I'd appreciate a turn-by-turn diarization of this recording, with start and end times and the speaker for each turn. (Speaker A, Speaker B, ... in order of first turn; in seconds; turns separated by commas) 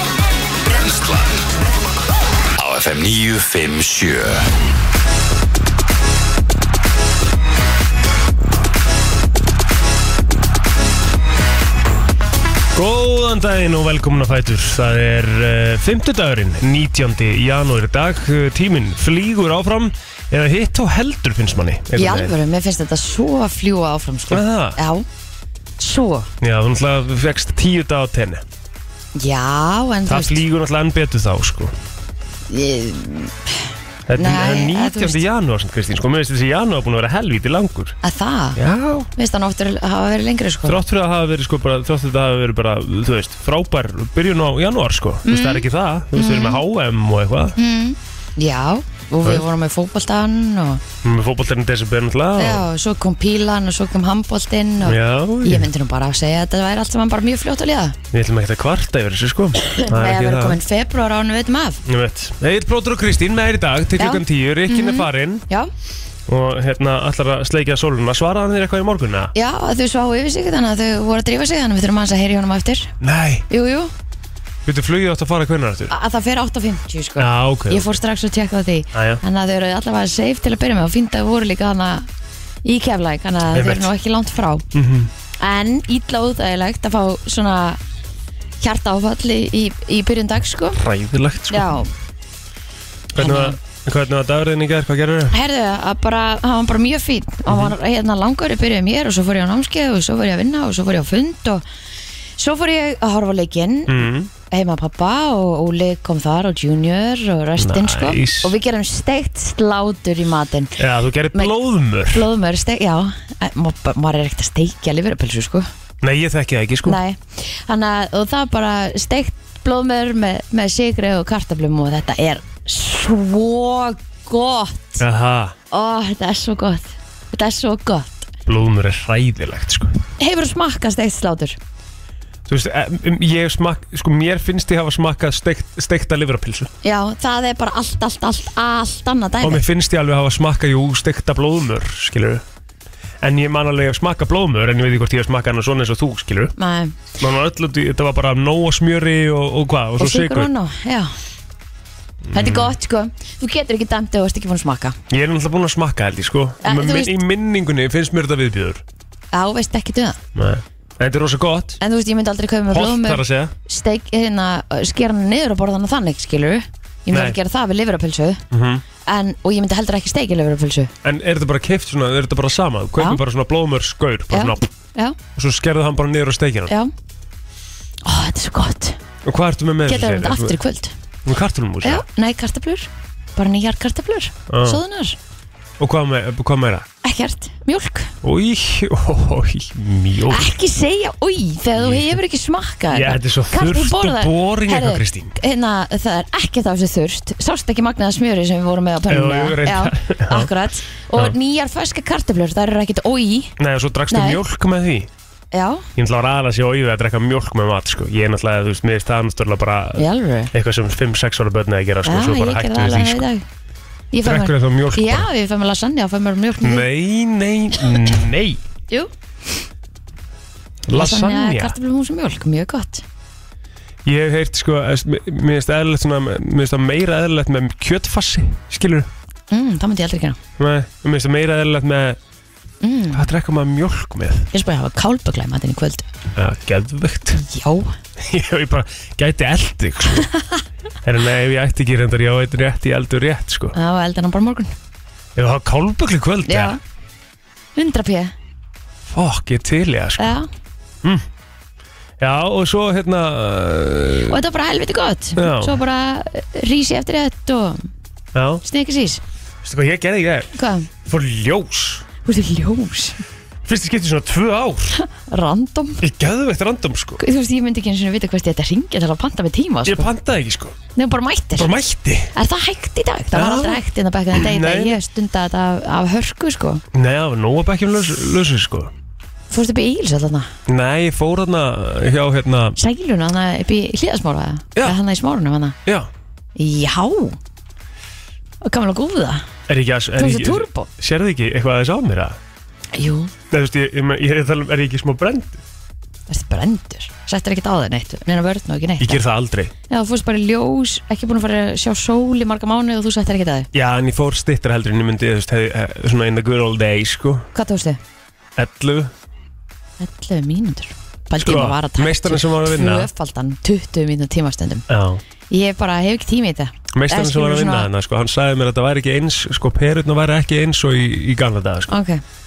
Speaker A: 0.7-1.5, Speaker A: 2.6-4.5, Speaker B: 12.7-22.4, Speaker C: 21.9-25.1, Speaker B: 24.3-24.8, Speaker C: 25.8-26.3, Speaker B: 26.4-28.4, Speaker C: 29.1-30.4, Speaker B: 30.1-31.7, Speaker C: 32.5-35.2, Speaker B: 34.1-38.0, Speaker C: 38.0-38.6, Speaker B: 38.5-39.1, Speaker C: 39.1-40.8, Speaker B: 40.6-47.5, Speaker C: 45.2-46.6, Speaker C: 47.6-50.8, Speaker B: 51.0-52.7, Speaker C: 52.4-58.0, Speaker B: 54.8-55.7, Speaker B: 58.1-60.6, Speaker C: 59.6-61.8, Speaker B: 61.8-65.5, Speaker C: 64.0-65.7, Speaker B: 66.3-69.3, Speaker C: 69.3-72.9, Speaker B: 73.0-73.5, Speaker C: 73.5-73.9, Speaker B: 74.7-75.9, Speaker C: 75.9-82.1, Speaker B: 77.2-77.9, Speaker B: 78.9-79.2, Speaker C: 82.6-84.7, Speaker B: 83.5-83.9, Speaker B: 84.7-85.1, Speaker C: 85.4-87.8, Speaker C: 88.6-90.8, Speaker B: 90.7-91.8, Speaker C: 91.5-91.9, Speaker C: 93.1-93.6, Speaker B: 93.1-95.3, Speaker C: 95.3-101.6, Speaker B: 97.5-97.7, Speaker C: 102.4-110.8, Speaker B: 103.9-104.3, Speaker B: 107.6-108.5, Speaker B: 110.8-112.3, Speaker C: 112.1-115.7, Speaker B: 116.0-117.0, Speaker C: 116.8-125.0, Speaker B: 125.0-125.5, Speaker C: 125.7-128.3, Speaker B: 128.4-130.0, Speaker C: 130.2-131.6, Speaker B: 132.5-136.7, Speaker C: 136.8-139.6, Speaker B: 139.4-142.4, Speaker B: 143.2-146.5, Speaker C: 146.6-147.0, Speaker B: 147.2-150.5, Speaker C: 150.0-151.1, Speaker B: 152.3-152.8, Speaker C: 152.3-155.0, Speaker B: 155.1-158.8, Speaker C: 156.6-157.2, Speaker C: 159.3-160.2, Speaker B: 160.3-161.8, Speaker C: 161.8-168.4, Speaker B: 162.7-163.5, Speaker B: 167.1-167.4, Speaker B: 168.5-168.8, Speaker C: 169.1-170.9, Speaker B: 171.0-174.7, Speaker C: 174.3-175.2, Speaker B: 175.3-176.7, Speaker C: 178.0-179.0, Speaker B: 179.2-180.6, Speaker C: 179.8-180.9, Speaker B: 181.2-182.0, Speaker C: 181.8-185.2, Speaker B: 184.5-184.8, Speaker B: 185.8-186.9, Speaker C: 187.0-188.1, Speaker B: 188.2-190.5, Speaker C: 190.3-203.5, Speaker B: 191.8-192.2, Speaker B: 192.9-195.3, Speaker B: 199.1-200.5, Speaker B: 203.6-205.1, Speaker C: 204.1-204.4, Speaker C: 205.5-205.8, Speaker B: 205.9-213.2, Speaker C: 210.0-210.5, Speaker C: 212.0-213.4, Speaker C: 214.1-216.8, Speaker B: 214.2-215.3, Speaker B: 216.6-218.6, Speaker B: 220.9-221.8, Speaker C: 220.9-223.0, Speaker B: 224.0-229.1, Speaker C: 229.5-230.4, Speaker B: 230.6-232.2, Speaker C: 232.8-233.3, Speaker B: 233.1-234.5, Speaker C: 234.5-236.0, Speaker B: 236.3-237.4, Speaker C: 237.3-237.9, Speaker B: 238.2-240.3, Speaker B: 241.0-243.7, Speaker C: 243.7-244.7, Speaker B: 245.3-246.8, Speaker C: 246.4-246.8, Speaker C: 247.8-248.3, Speaker B: 249.1-250.4, Speaker C: 250.2-250.5, Speaker B: 252.2-254.4, Speaker C: 254.3-257.8, Speaker B: 255.4-255.8, Speaker B: 258.3-258.6, Speaker C: 258.6-259.2, Speaker B: 259.6-260.5, Speaker C: 260.5-260.9, Speaker B: 261.0-262.0, Speaker C: 262.2-263.2, Speaker B: 263.6-265.0, Speaker C: 265.0-266.0, Speaker B: 266.0-267.2, Speaker C: 267.2-270.1, Speaker B: 269.9-270.8, Speaker C: 270.9-271.7, Speaker B: 271.5-272.3, Speaker C: 272.3-276.8, Speaker B: 273.3-273.8, Speaker B: 274.3-275.0, Speaker B: 276.9-278.9, Speaker C: 279.5-280.5, Speaker B: 280.7-282.8, Speaker C: 282.8-285.8, Speaker C: 286.6-287.4, Speaker C: 288.6-289.4, Speaker B: 289.7-292.4, Speaker C: 290.1-290.9, Speaker C: 292.9-293.3, Speaker B: 293.5-295.6, Speaker C: 296.3-299.2, Speaker B: 299.0-299.7, Speaker C: 299.9-303.7, Speaker B: 303.7-307.5, Speaker C: 307.5-308.0, Speaker B: 308.6-309.1, Speaker C: 310.0-314.8, Speaker B: 311.4-313.1, Speaker B: 314.9-315.2, Speaker C: 315.5-317.9, Speaker B: 316.9-321.9, Speaker C: 321.9-322.2